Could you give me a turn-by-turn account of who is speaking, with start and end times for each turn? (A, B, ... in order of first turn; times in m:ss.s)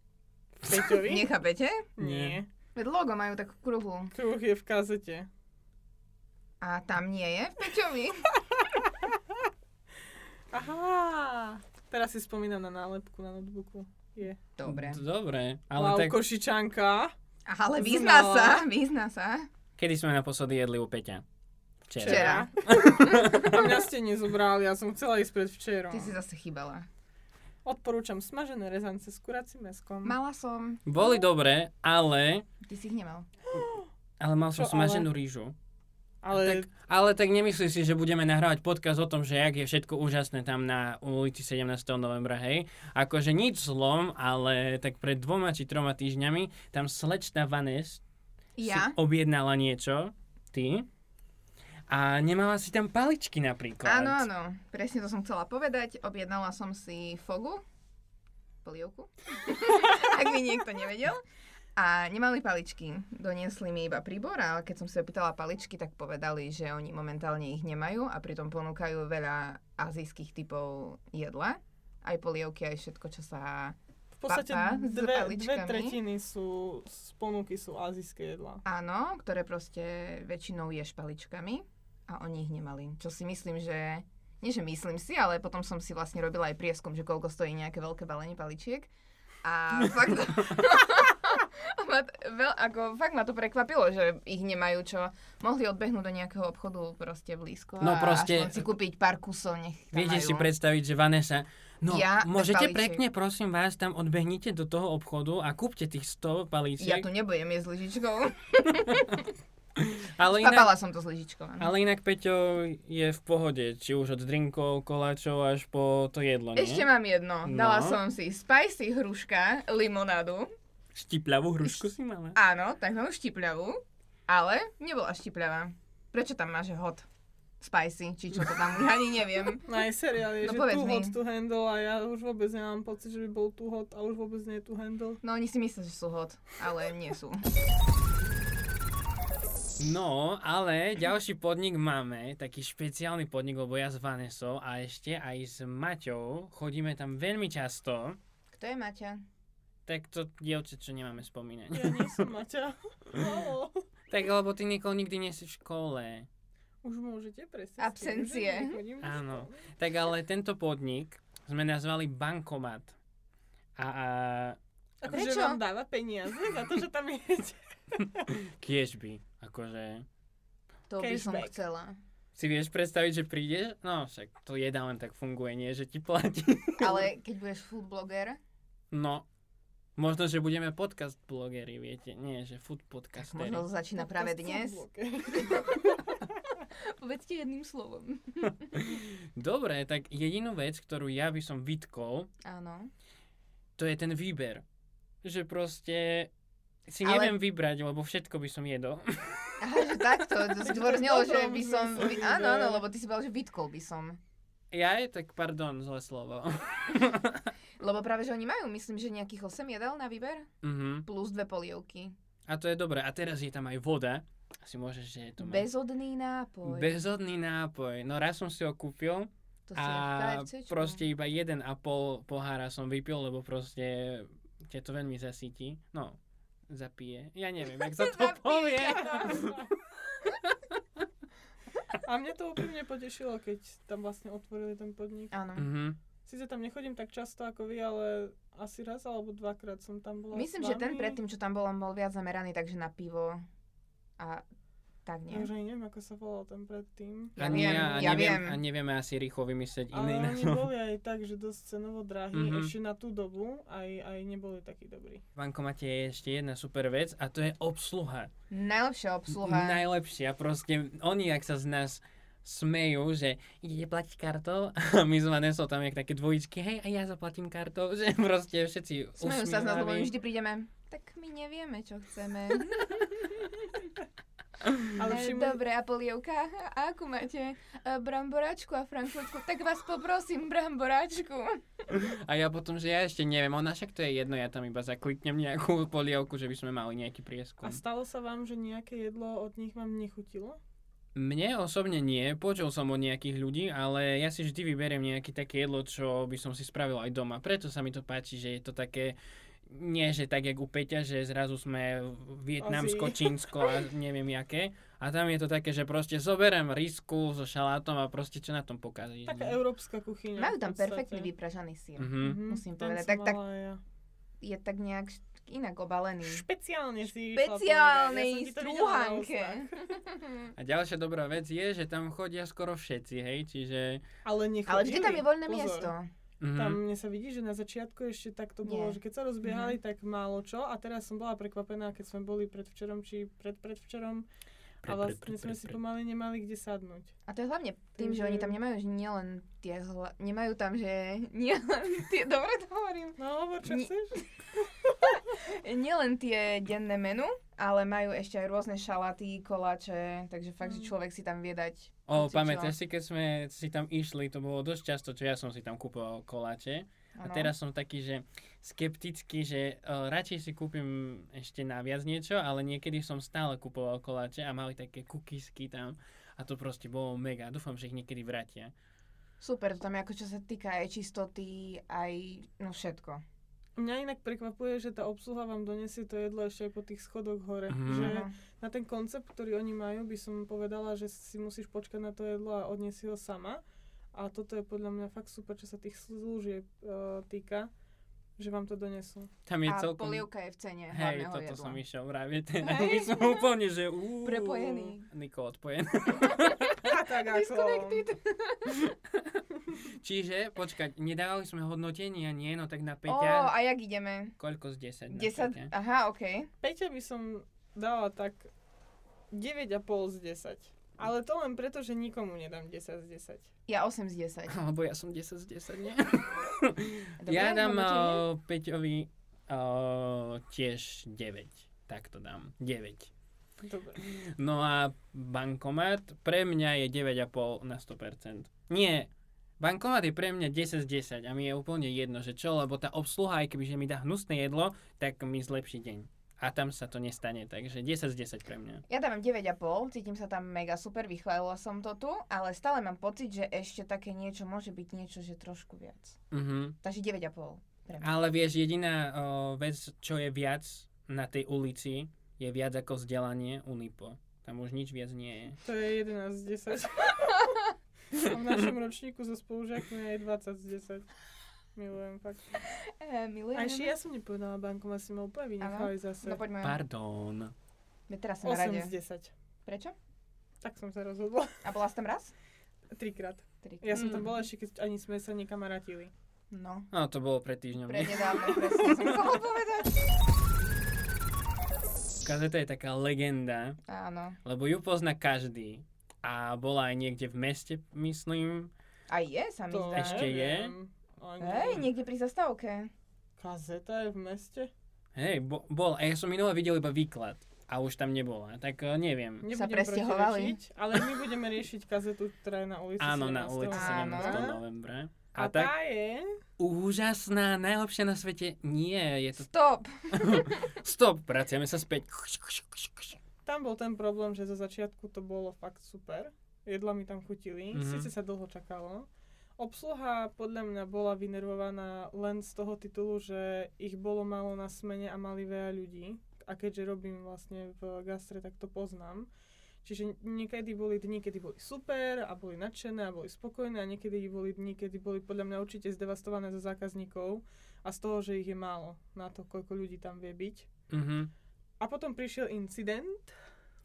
0:00.6-0:01.3 A
0:01.0-0:01.9 B
0:02.0-0:02.5 A
0:02.0-0:02.4 C
0:02.7-0:04.1 B
0:04.1-0:05.3 A
0:06.6-0:08.3 B
0:10.5-0:14.4 A
0:14.6-0:15.0 B
0:14.6-0:16.2 C
0:15.7-0:17.1 A
0:17.4-0:19.5 B
0:17.8-0:18.6 A
0:19.8-0:21.2 C
0:21.9-0:23.7 C
0:22.0-0:26.2 A
0:22.0-0:23.5 B
0:25.9-0:26.9 B
0:27.6-0:30.1 A
0:30.0-0:31.2 B
0:30.8-0:32.4 C
0:32.6-0:33.3 B
0:33.5-0:33.8 A
0:34.2-0:35.5 C
0:34.5-0:35.1 A
0:36.2-0:36.7 A
0:36.3-0:48.0 C
0:48.6-0:49.0 B
0:48.6-0:50.9 C
0:51.9-0:54.2 C
0:53.8-0:57.6 B
0:58.6-1:01.2 B
1:01.8-1:13.8 B
1:14.2-1:18.6 A
1:14.3-1:16.0 B
1:18.6-1:28.9 B
1:29.4-1:40.5 B
1:37.8-1:38.6 C
1:39.9-1:47.1 C
1:41.9-1:43.0 B
1:46.8-1:49.3 B
1:48.9-1:49.2 C
1:49.8-1:50.7 C
1:50.3-1:51.7 B
1:51.6-1:56.9 C
1:56.5-2:00.5 B
1:57.4-1:58.0 C
2:00.9-2:02.4 C
2:02.4-2:07.0 B
2:07.6-2:09.6 B
2:09.6-2:15.2 A
2:10.4-2:11.2 B
2:15.2-2:17.4 B
2:19.8-2:28.2 C
2:28.5-2:29.2 B
2:29.8-2:32.3 C
2:31.7-2:33.9 A
2:34.1-2:36.3 C
2:36.8-2:39.5 A
2:37.8-2:38.8 B
2:39.0-2:43.0 C
2:43.8-2:44.6 C
2:45.0-2:48.3 A
2:45.1-2:45.6 B
2:48.2-2:50.0 C
2:50.9-2:52.0 B
2:51.0-2:51.6 A
2:52.4-2:57.1 C
2:56.8-2:58.4 B
2:58.9-2:59.2 C
3:00.0-3:03.6 C
3:03.2-3:04.8 B
3:04.0-3:06.2 A
3:05.3-3:05.8 B
3:06.7-3:08.7 B
3:08.7-3:12.3 C
3:12.4-3:12.9 B
3:13.8-3:14.6 C
3:15.2-3:16.3 C
3:16.9-3:19.5 C
3:17.0-3:17.4 B
3:19.6-3:24.2 B
3:20.6-3:22.8 A
3:24.7-3:27.5 C
3:27.8-3:30.5 B
3:30.6-3:31.1 C
3:31.0-3:32.1 B
3:32.5-3:35.7 C
3:35.4-3:37.0 B
3:36.6-3:46.2 C
3:39.7-3:41.0 B
3:46.7-3:49.6 C
3:47.8-3:49.5 B
3:50.2-3:50.6 C
3:52.0-3:55.3 A
3:55.3-3:55.7 B
3:55.6-3:56.0 C
3:56.2-4:01.2 A
4:00.3-4:03.4 B
4:04.2-4:04.4 B
4:05.0-4:05.5 B
4:05.3-4:08.4 A
4:07.4-4:08.6 B
4:07.4-4:10.7 C
4:09.9-4:15.2 A
4:12.3-4:12.7 C
4:15.4-4:18.3 C
4:18.5-4:19.8 B
4:19.3-4:30.1 C
4:29.2-4:33.8 B
4:34.9-4:35.6 A
4:35.0-4:41.6 B
4:41.9-4:47.8 C
4:47.6-4:50.6 A
4:51.1-5:09.6 C
5:02.6-5:03.8 A
5:09.2-5:11.3 A
5:10.4-5:13.4 B
5:12.0-5:12.4 C
5:12.2-5:13.8 A
5:14.4-5:16.4 B
5:16.2-5:19.9 A
5:17.3-5:20.5 B
5:20.6-5:24.0 C
5:24.2-5:25.9 A
5:24.6-5:26.1 B
5:26.4-5:26.8 C
5:26.6-5:34.2 A
5:28.6-5:29.8 B
5:34.8-5:35.8 C
5:34.8-5:37.1 A
5:37.3-5:43.9 B
5:37.9-5:38.6 A
5:43.2-5:44.2 A
5:45.1-5:52.8 B
5:50.6-5:50.9 A
5:52.1-6:08.7 C
5:57.1-5:57.5 B
6:09.4-6:13.2 B
6:13.8-6:23.6 A
6:17.7-6:18.2 C
6:17.8-6:18.3 B
6:24.1-6:27.7 A
6:28.4-6:29.3 A
6:29.4-6:30.3 C
6:29.6-6:31.8 B
6:30.9-6:36.9 C
6:32.6-6:33.5 B
6:34.2-6:35.1 B
6:36.8-6:38.0 A
6:37.2-6:38.9 B
6:38.7-6:43.5 C
6:43.0-6:44.4 B
6:44.4-6:45.7 C
6:45.1-6:46.5 B
6:46.6-6:48.5 A
6:49.3-6:53.5 A
6:53.7-6:54.6 B
6:54.5-7:03.1 C
6:57.2-6:58.2 B
7:03.6-7:04.0 A
7:04.0-7:18.8 C
7:18.9-7:26.2 B
7:26.3-7:26.8 C
7:26.8-7:28.2 B
7:28.0-7:35.6 C
7:35.6-7:37.5 A
7:38.1-7:41.1 A
7:41.7-7:42.6 A
7:42.7-7:43.9 B
7:43.5-7:46.4 A
7:45.6-7:46.8 B
7:46.6-7:47.5 C
7:48.1-7:48.9 B
7:48.4-7:49.3 A
7:49.6-7:49.9 B
7:50.6-7:51.6 A
7:51.6-7:52.3 B
7:52.9-7:56.1 A
7:53.6-7:54.4 B
7:56.5-7:56.9 B
7:56.9-7:58.9 C
7:57.8-8:00.0 B
8:02.2-8:03.8 C
8:03.8-8:04.4 B
8:04.4-8:08.7 C
8:09.1-8:10.3 B
8:09.7-8:11.9 A
8:09.9-8:10.7 C
8:11.4-8:12.9 B
8:13.4-8:14.7 A
8:15.2-8:19.5 C
8:19.4-8:24.6 A
8:19.5-8:20.6 B
8:23.0-8:25.7 C
8:23.7-8:24.5 B
8:25.4-8:26.4 A
8:26.6-8:29.5 C
8:29.4-8:30.7 B
8:30.1-8:33.2 C
8:33.4-8:49.3 A
8:37.7-8:38.1 C
8:49.8-9:00.7 A
9:00.9-9:01.3 C
9:01.8-9:03.3 A